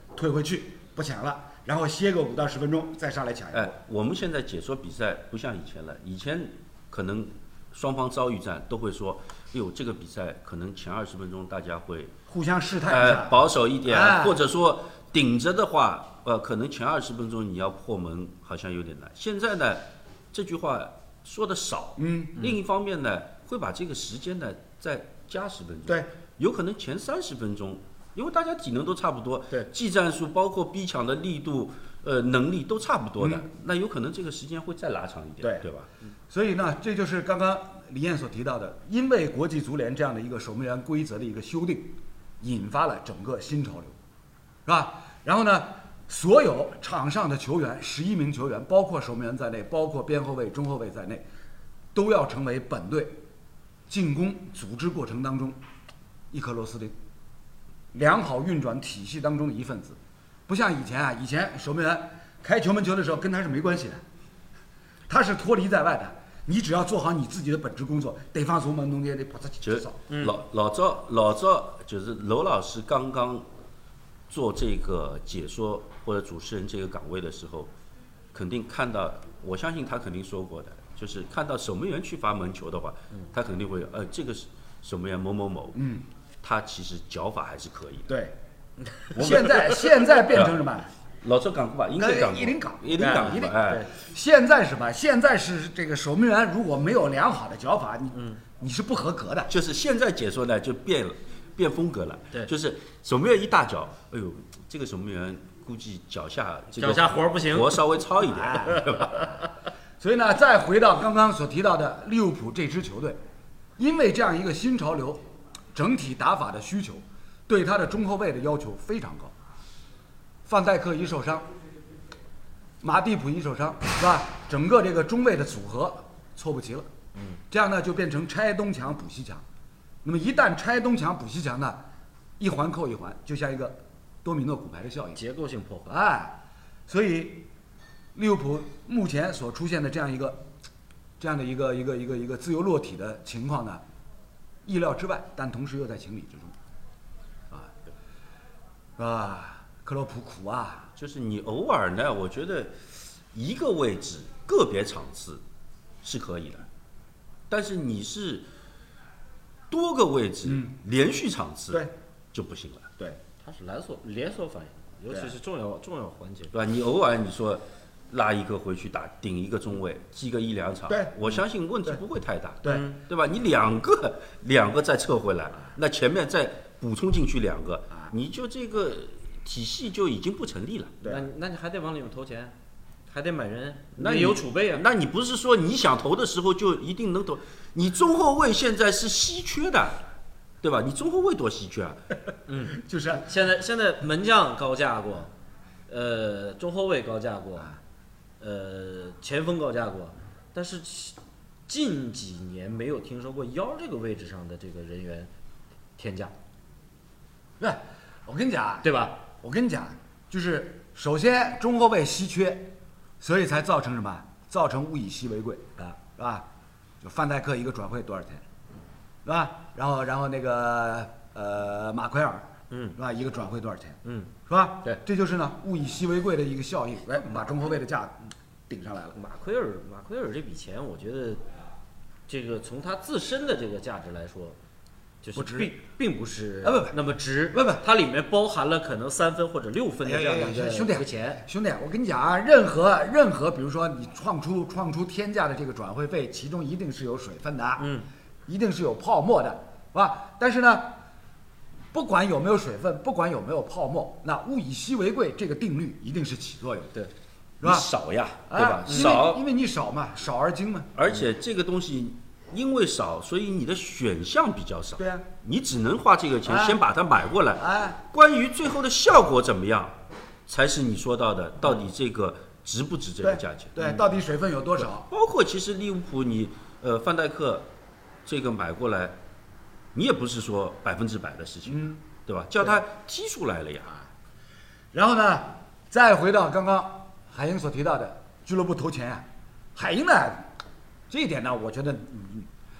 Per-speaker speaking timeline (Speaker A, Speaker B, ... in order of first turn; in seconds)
Speaker A: 0.1-3.7, 12.3-14.4, 22.0-22.4, 33.2-33.4, 35.4-35.7, 36.3-43.9, 44.6-51.2, 51.9-53.2, 53.9-55.6, 56.3-56.9, 57.9-64.0, 65.1-70.0, 85.7-86.0, 88.1-88.3, 89.1-90.9, 91.9-99.5, 108.3-109.3, 110.0-113.2, 113.8-115.2, 115.7-119.3, 120.5-121.5, 122.8-126.9, 127.5-129.4, 130.0-131.8, 132.4-135.2, 135.9-136.3, 136.9-137.5, 138.1-140.4, 141.2-143.8, 144.7-146.5, 149.0-150.9, 160.4-160.7, 170.9-171.2, 192.7-193.3, 207.6-216.4, 217.0-218.4, 219.2-229.2, 235.3-235.8, 236.6-236.9, 237.5-237.8, 240.0-247.9, 248.5-250.9, 251.9-256.9, 257.6-257.9, 258.5-260.9, 265.0-265.2, 266.4-266.8, 267.6-268.0, 273.2-275.1, 281.6-282.0, 284.9-289.2, 289.8-290.5, 291.1-292.5
Speaker B: 3.5-12.1, 12.8-35.9, 69.6-73.5, 74.3-77.7, 78.3-85.8, 86.4-88.1, 89.1-90.5, 91.2-93.9, 99.5-109.3, 151.0-155.4, 156.0-156.7, 157.5-158.5, 159.7-162.9, 166.5-181.0, 184.0-190.0, 190.6-192.0, 257.6-259.4, 260.9-273.8, 275.1-277.7, 278.2-279.2, 279.9-283.9
Speaker C: 70.1-70.4, 93.0-93.9, 106.7-107.8, 108.7-109.1, 135.2-135.9, 163.4-166.5, 172.7-173.0, 181.0-182.5, 183.1-184.8, 192.5-195.3, 195.9-197.7, 198.4-201.2, 201.7-205.3, 206.0-206.3, 208.8-209.2, 222.7-223.0, 224.0-224.3, 229.1-231.4, 232.3-234.6, 235.2-241.4, 247.8-248.0